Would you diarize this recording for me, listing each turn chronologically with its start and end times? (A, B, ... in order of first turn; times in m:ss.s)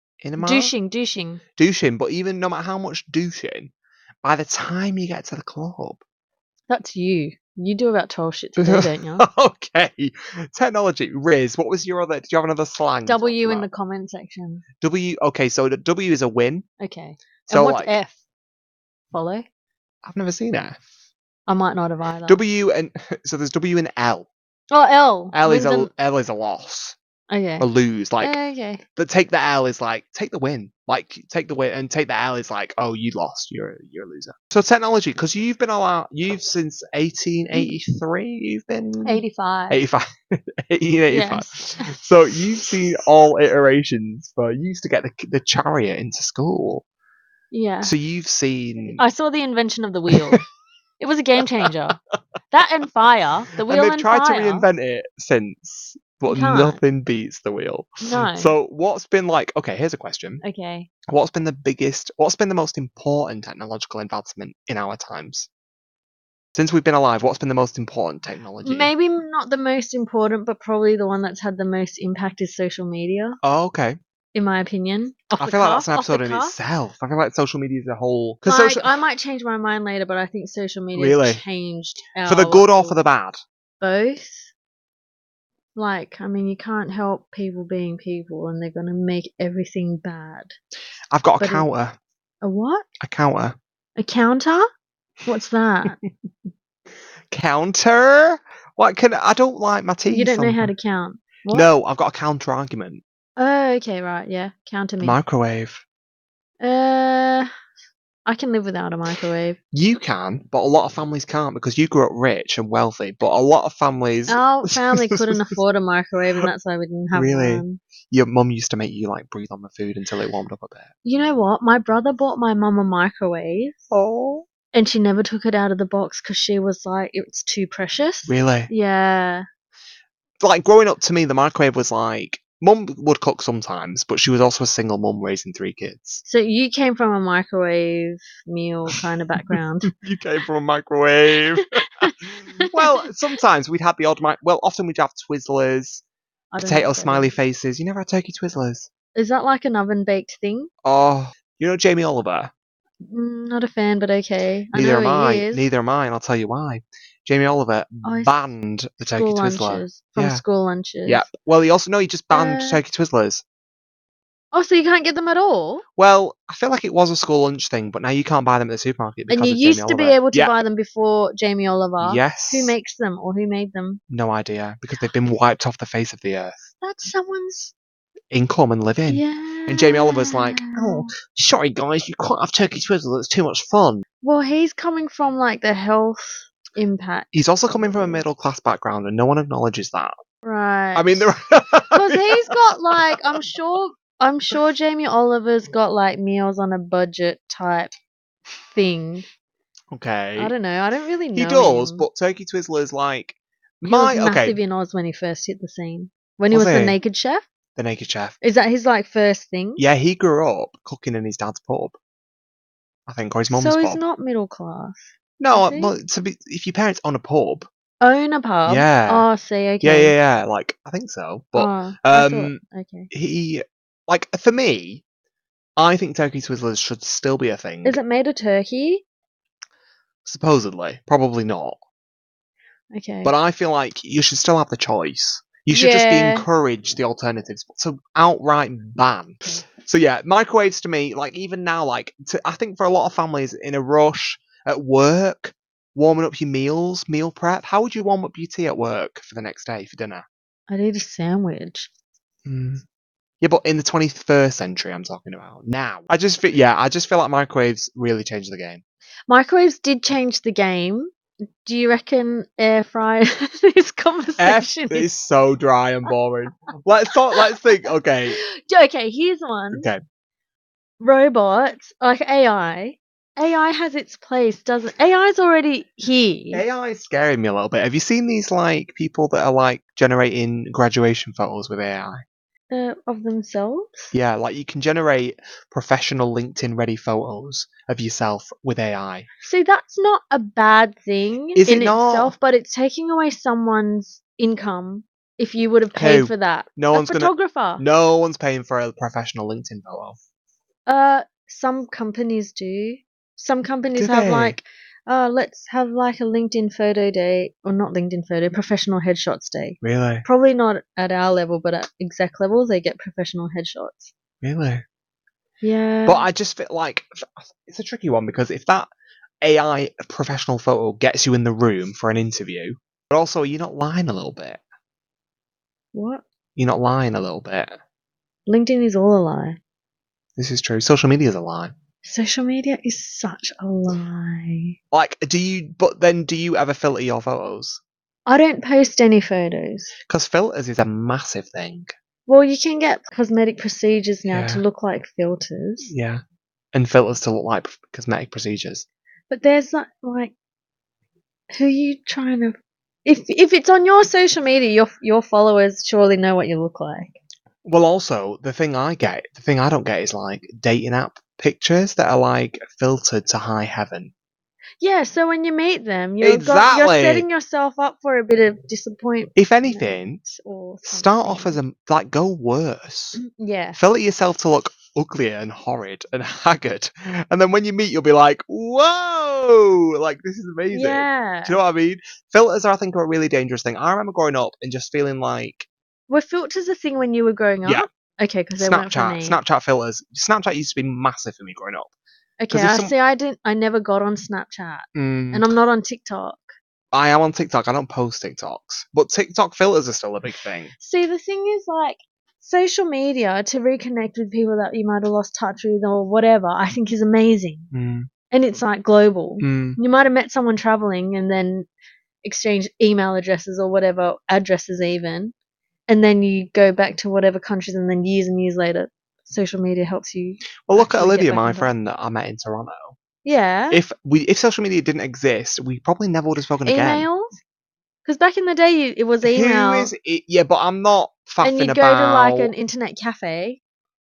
0:00.2-0:00.7 A
0:00.4-0:01.4 B
0:01.6-0:03.7 A
0:04.2-0:06.0 A
0:06.7-0:09.3 B
0:08.6-0:13.7 A
0:13.1-0:14.6 B
0:14.8-0:16.6 A
0:16.8-0:18.2 B
0:17.5-0:17.9 A
0:19.1-0:19.5 B
0:20.0-0:20.8 A
0:21.5-0:22.4 B
0:22.3-0:24.3 A
0:24.7-0:25.9 B
0:25.3-0:27.0 A
0:27.3-0:27.7 B
0:27.6-0:28.4 A
0:28.2-0:28.8 B
0:29.0-0:46.8 A
0:39.0-0:39.8 B
0:41.1-0:42.0 B
0:47.5-0:47.9 B
0:47.8-0:49.0 A
0:49.0-0:50.4 B
0:50.1-0:50.4 A
0:51.0-0:52.0 B
0:51.4-0:51.7 A
0:52.5-0:54.7 B
0:53.6-1:00.4 A
0:56.3-0:56.8 B
0:58.0-0:58.6 B
1:00.4-1:00.9 B
1:01.1-1:05.5 A
1:06.6-1:08.9 A
1:08.6-1:13.4 B
1:13.4-1:14.0 A
1:14.3-1:16.6 B
1:15.4-1:19.0 A
1:18.4-1:23.0 B
1:21.0-1:21.4 A
1:22.3-1:23.4 A
1:23.8-1:24.5 B
1:25.8-1:30.5 B
1:31.1-1:32.0 A
1:31.4-1:31.7 B
1:32.4-1:32.9 B
1:33.0-1:33.6 A
1:34.0-1:34.7 B
1:35.3-1:36.0 B
1:37.3-1:40.7 A
1:40.1-1:41.7 B
1:41.5-1:43.0 A
1:43.4-1:45.2 B
1:45.0-1:45.8 A
1:46.6-1:47.5 B
1:48.3-1:49.6 B
1:49.7-1:55.6 A
1:54.3-1:57.8 B
1:57.1-2:00.9 A
2:01.0-2:03.9 B
2:03.9-2:04.5 A
2:04.7-2:09.5 B
2:08.3-2:08.7 A
2:10.4-2:16.2 A
2:16.2-2:19.9 B
2:19.5-2:21.8 A
2:21.6-2:23.0 B
2:22.4-2:26.0 A
2:26.5-2:27.3 B
2:26.6-2:28.9 A
2:29.2-2:30.7 B
2:30.8-2:32.5 A
2:33.0-2:35.7 B
2:34.7-2:40.4 A
2:38.0-2:38.3 B
2:39.0-2:41.3 B
2:41.1-2:43.4 A
2:42.3-2:42.8 B
2:44.5-2:45.8 B
2:46.0-2:50.6 A
2:49.3-2:54.0 B
2:52.0-2:52.7 A
2:54.1-2:56.7 A
2:56.8-2:57.7 B
2:58.3-3:04.0 A
2:59.1-3:01.1 B
3:04.2-3:07.3 B
3:07.3-3:10.2 A
3:10.4-3:11.3 B
3:11.0-3:12.6 A
3:11.9-3:17.9 B
3:13.1-3:13.4 A
3:18.7-3:19.3 B
3:19.9-3:20.5 A
3:20.4-3:22.1 B
3:21.4-3:24.6 A
3:23.8-3:27.4 B
3:26.5-3:27.0 A
3:27.8-3:28.4 A
3:28.4-3:29.8 B
3:29.8-3:32.0 A
3:33.1-3:34.0 A
3:33.5-3:35.0 B
3:35.4-3:37.7 A
3:35.5-3:36.0 B
3:38.0-3:40.2 B
3:38.7-3:39.3 A
3:39.8-3:45.0 A
3:41.6-3:43.1 B
3:45.8-3:48.0 A
3:47.8-3:49.0 B
3:50.3-3:51.8 A
3:52.9-3:53.3 B
3:53.2-4:10.2 A
3:55.7-3:56.5 B
4:10.7-4:11.9 B
4:12.4-4:12.8 A
4:13.4-4:18.8 A
4:19.3-4:21.1 B
4:21.6-4:25.1 B
4:24.4-4:28.4 A
4:27.4-4:29.9 B
4:29.7-4:30.0 A
4:31.0-4:36.6 B
4:36.5-4:42.2 A
4:42.7-4:44.1 B
4:44.1-4:49.3 A
4:49.4-4:57.8 B
4:51.6-4:52.3 A
4:55.9-5:00.2 A
5:00.9-5:14.1 B
5:04.0-5:04.6 A
5:09.8-5:10.2 A
5:14.4-5:14.8 A
5:15.6-5:16.3 B
5:16.1-5:18.9 A
5:19.4-5:24.6 A
5:25.9-5:26.2 B
5:26.6-5:27.8 A
5:28.5-5:29.6 B
5:30.4-5:31.7 A
5:32.0-5:34.8 B
5:34.9-5:37.8 A
5:38.3-5:39.9 B
5:40.1-5:41.9 A
5:42.3-5:45.9 B
5:44.3-5:44.6 A
5:45.8-5:46.2 A
5:46.7-5:48.9 A
5:49.3-5:50.3 B
5:51.5-5:57.2 B
5:57.6-6:04.1 A
6:04.8-6:11.6 B
6:06.2-6:07.3 A
6:09.4-6:10.2 A
6:10.9-6:13.2 A
6:13.2-6:13.8 B
6:13.8-6:25.7 A
6:20.7-6:21.6 B
6:26.1-6:29.4 B
6:28.6-6:31.9 A
6:32.4-6:36.5 B
6:32.5-6:32.9 A
6:35.0-6:35.5 A
6:36.9-6:40.7 A
6:40.8-6:47.7 B
6:47.7-6:48.1 A
6:48.3-6:51.7 B
6:49.4-6:49.8 A
6:52.2-6:55.3 B
6:55.9-7:01.7 B
7:00.7-7:03.0 A
7:03.2-7:03.8 B
7:03.7-7:07.1 A
7:06.6-7:07.4 B
7:08.0-7:09.9 B
7:09.2-7:12.5 A
7:11.4-7:13.6 B